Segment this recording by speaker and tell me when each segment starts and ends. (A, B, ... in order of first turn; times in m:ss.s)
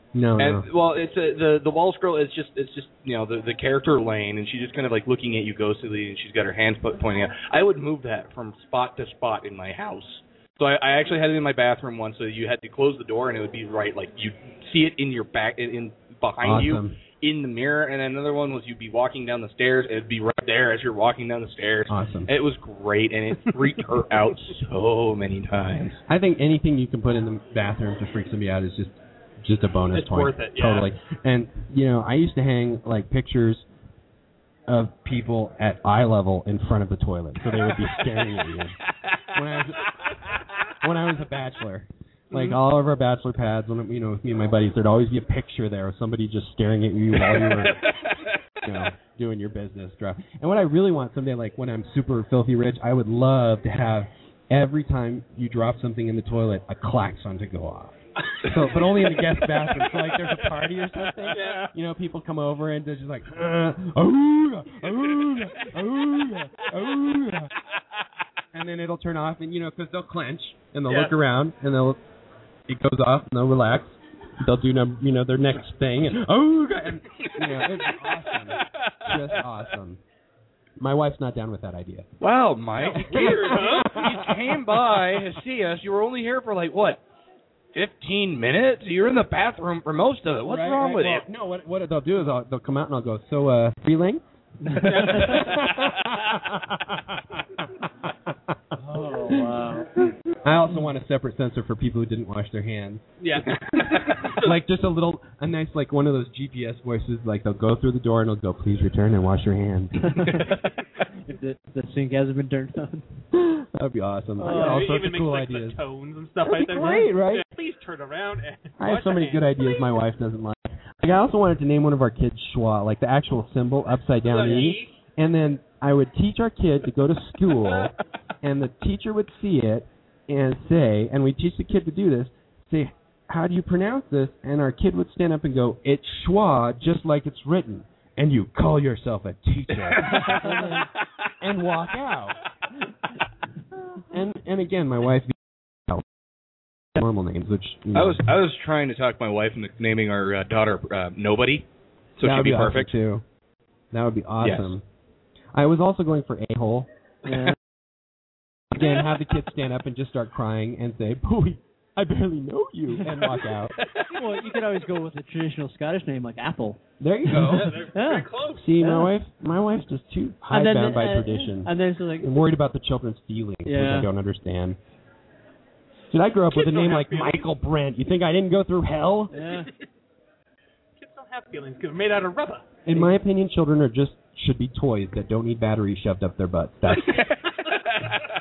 0:00.1-0:00.7 A
0:00.4-0:26.0 B
0:16.4-0:17.0 A
0:21.9-0:22.3 A
0:26.1-0:33.6 A
0:29.9-0:30.9 C
0:34.7-0:38.7 A
0:39.3-0:40.0 A
0:40.8-0:47.8 A
0:47.3-0:48.0 B
0:48.6-1:07.5 A
1:01.3-1:01.7 C
1:08.5-1:12.0 A
1:10.9-1:11.1 C
1:12.7-1:20.0 A
1:17.2-1:18.1 B
1:18.6-1:19.1 B
1:20.8-1:22.1 A
1:22.2-1:27.0 B
1:22.8-1:24.6 A
1:23.1-1:23.9 C
1:27.7-1:31.2 B
1:30.4-1:34.2 A
1:34.6-1:35.4 D
1:34.8-1:36.8 A
1:34.8-1:35.4 C
1:38.9-1:39.9 D
1:39.0-1:39.5 A
1:40.4-1:43.1 A
1:43.2-1:44.5 C
1:43.8-1:50.4 A
1:50.0-1:50.5 D
1:51.2-1:53.0 D
1:53.3-1:55.8 A
1:54.4-1:54.9 D
1:54.4-1:59.5 C
1:56.4-1:57.4 A
1:58.8-2:20.4 A
2:04.2-2:04.9 C
2:19.9-2:20.7 B
2:20.2-2:20.9 D
2:21.4-2:22.4 A
2:24.1-2:25.4 A
2:27.0-2:28.2 A
2:27.9-2:31.6 B
2:32.2-2:32.9 B
2:32.2-2:33.2 A
2:33.9-2:34.8 A
2:34.4-2:34.7 B
2:35.5-2:36.9 A
2:37.2-2:37.5 D
2:38.7-2:43.7 A
2:44.1-2:49.1 D
2:47.0-2:47.8 A
2:47.5-2:48.6 C
2:48.5-2:54.8 A
2:50.5-2:52.3 D
2:53.6-2:54.1 D
2:56.1-2:59.3 A
2:56.5-2:57.4 C
2:59.3-2:59.7 D
3:01.0-3:02.6 C
3:02.8-3:07.2 A
3:07.0-3:07.4 B